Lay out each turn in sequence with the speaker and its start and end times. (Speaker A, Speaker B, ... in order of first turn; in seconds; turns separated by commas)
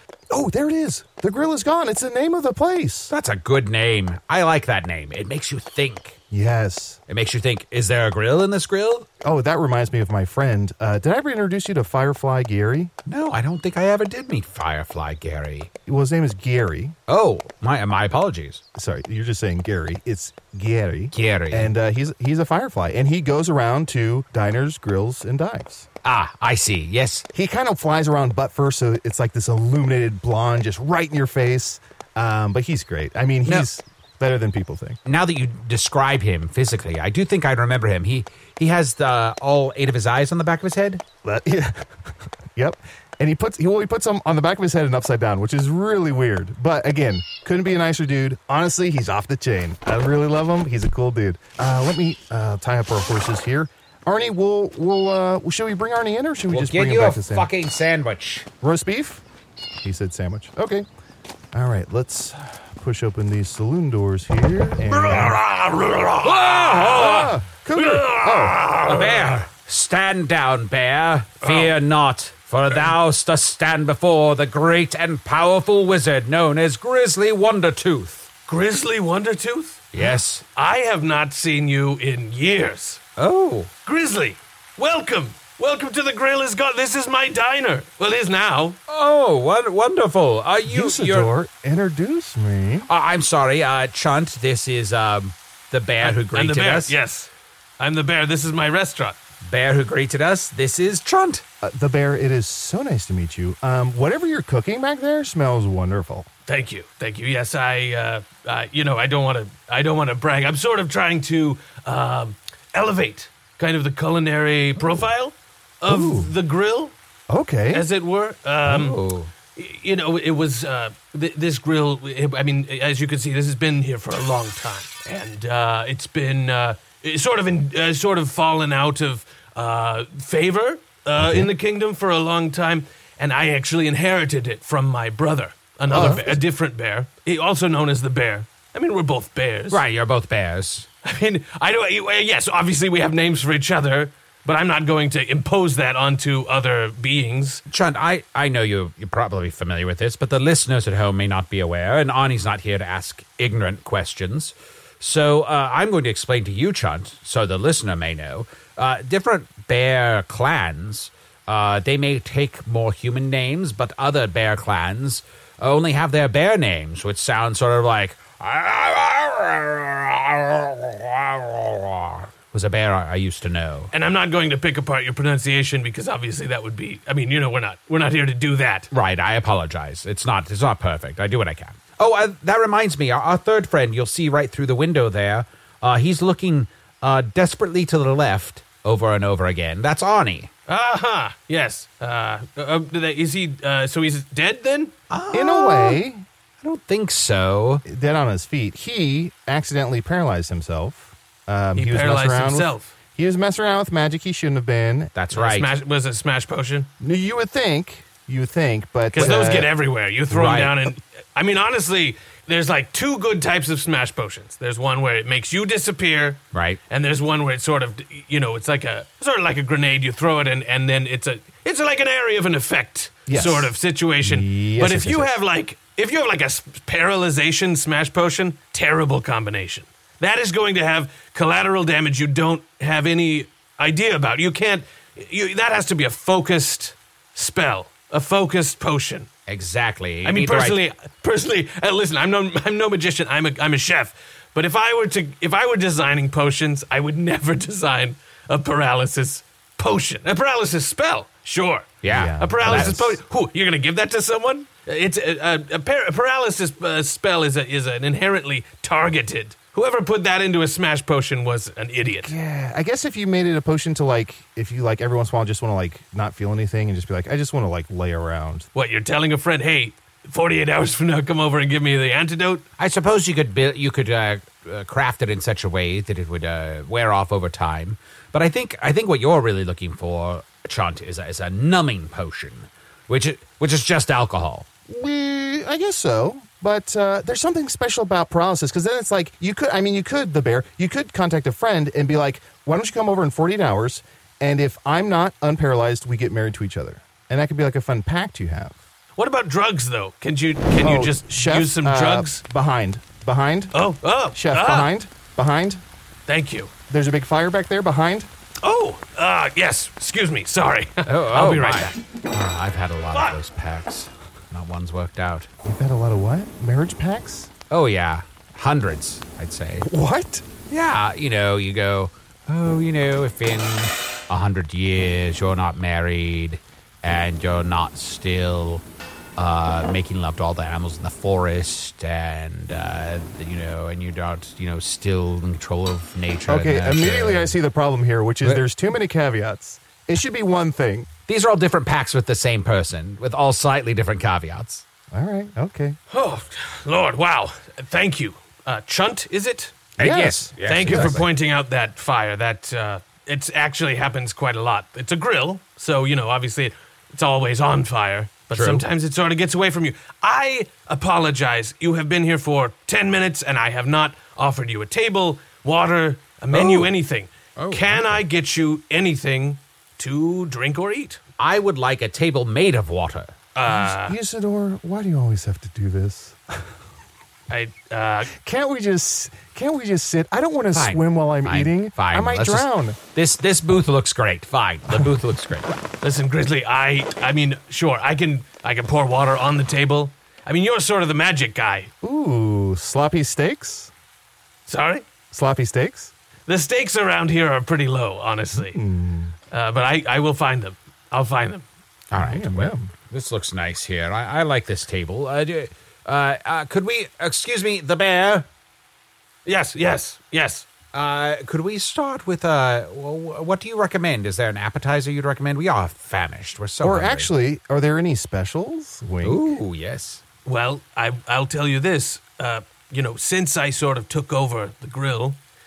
Speaker A: 0.3-3.1, Speaker B: 3.1-6.2, Speaker A: 6.3-7.0, Speaker B: 7.1-9.1, Speaker A: 9.2-12.9, Speaker B: 13.1-15.7, Speaker A: 15.9-17.0, Speaker B: 17.1-18.6, Speaker A: 18.8-25.9, Speaker B: 21.1-21.7, Speaker B: 26.0-27.2, Speaker A: 27.3-35.0, Speaker B: 35.0-41.0, Speaker A: 41.2-41.9, Speaker A: 42.5-57.5, Speaker B: 56.5-58.5, Speaker A: 58.6-59.2, Speaker A: 59.8-60.9, Speaker A: 61.5-65.4, Speaker C: 64.9-69.4, Speaker B: 66.2-67.3, Speaker A: 66.9-68.6, Speaker B: 68.7-78.3, Speaker C: 71.4-71.7, Speaker C: 78.5-80.0, Speaker B: 79.9-80.4, Speaker C: 80.6-83.0, Speaker B: 83.2-83.7, Speaker C: 83.8-88.8, Speaker B: 88.9-91.3, Speaker A: 90.7-92.9, Speaker B: 92.9-96.9, Speaker C: 96.0-99.2, Speaker B: 99.4-101.4, Speaker A: 101.6-106.3, Speaker C: 106.5-116.9, Speaker A: 115.9-116.3, Speaker A: 117.3-117.9, Speaker C: 117.7-119.0, Speaker B: 118.7-119.3, Speaker C: 119.5-139.8, Speaker A: 131.2-131.5, Speaker A: 135.9-136.4, Speaker B: 139.7-140.9, Speaker C: 141.0-147.6, Speaker B: 147.7-173.9, Speaker C: 173.9-178.9, Speaker B: 178.9-190.5, Speaker C: 190.7-194.9, Speaker B: 195.1-196.0, Speaker A: 195.3-196.2, Speaker B: 196.6-197.8, Speaker A: 197.8-205.1, Speaker C: 201.8-202.9, Speaker B: 205.2-205.7, Speaker C: 205.3-206.9, Speaker A: 207.0-209.7, Speaker C: 209.1-239.3, Speaker B: 210.3-210.9, Speaker B: 216.5-216.8, Speaker A: 223.3-225.4, Speaker B: 239.5-240.8, Speaker C: 240.2-262.3, Speaker B: 252.0-253.0, Speaker A: 252.1-253.2, Speaker A: 262.2-268.7, Speaker C: 268.8-272.6, Speaker B: 272.8-284.7, Speaker A: 284.9-298.8, Speaker C: 299.2-302.4, Speaker A: 300.8-303.7, Speaker C: 303.7-304.9, Speaker A: 304.3-305.8, Speaker C: 306.3-306.7, Speaker A: 306.9-308.3, Speaker C: 308.6-312.0, Speaker B: 311.1-315.5, Speaker C: 313.1-313.4, Speaker A: 315.6-317.5, Speaker B: 317.7-319.9, Speaker A: 319.8-320.5, Speaker B: 320.7-328.8, Speaker B: 329.4-337.6, Speaker A: 336.5-341.1, Speaker B: 341.3-344.8, Speaker A: 345.1-346.0, Speaker C: 346.1-349.9, Speaker A: 350.0-351.2, Speaker B: 350.0-351.2, Speaker C: 350.7-371.2, Speaker B: 358.5-358.8, Speaker B: 366.5-366.9, Speaker B: 367.6-368.2, Speaker B: 371.4-373.3, Speaker C: 373.6-374.2, Speaker A: 373.7-376.7, Speaker C: 377.5-378.3, Speaker A: 378.3-383.0, Speaker B: 380.7-385.7, Speaker C: 386.0-391.9, Speaker A: 392.0-393.9, Speaker C: 394.7-395.0, Speaker A: 395.3-396.1, Speaker C: 396.5-398.8, Speaker A: 398.5-399.3, Speaker C: 399.5-401.6, Speaker B: 402.1-408.5, Speaker A: 402.1-402.9, Speaker C: 409.4-410.7, Speaker B: 410.9-417.3, Speaker A: 416.8-419.6, Speaker B: 419.2-420.2, Speaker C: 420.4-425.4